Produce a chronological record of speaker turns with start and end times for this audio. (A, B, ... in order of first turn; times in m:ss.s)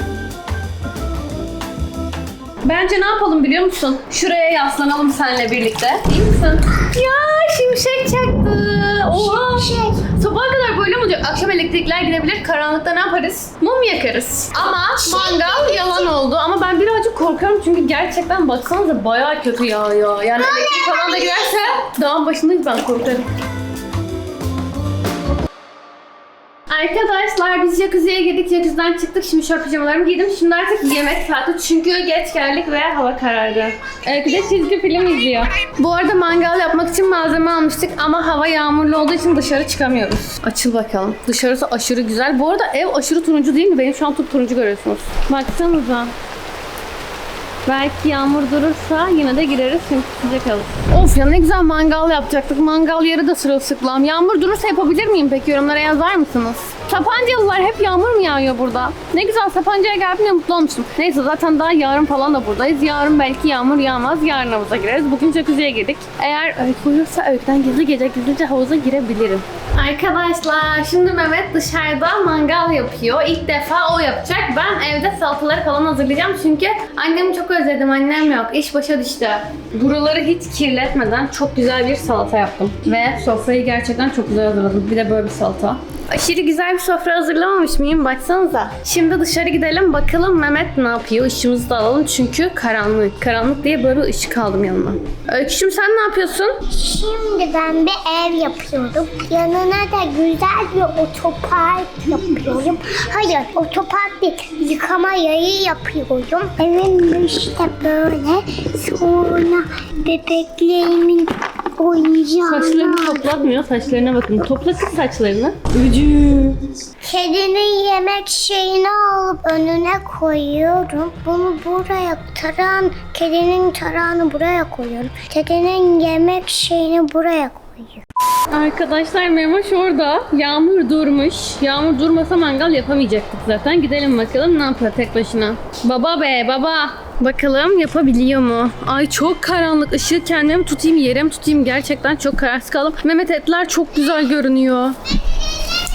0:02.6-0:23.3 A
0:09.1-0:10.0 B
0:15.0-0:16.1 B
0:20.4-0:21.5 B
0:26.7-0:46.1 A
0:47.6-1:36.6 A
1:36.7-1:53.3 B
1:52.5-1:56.6 A
1:57.0-2:08.0 B
2:08.5-2:25.0 A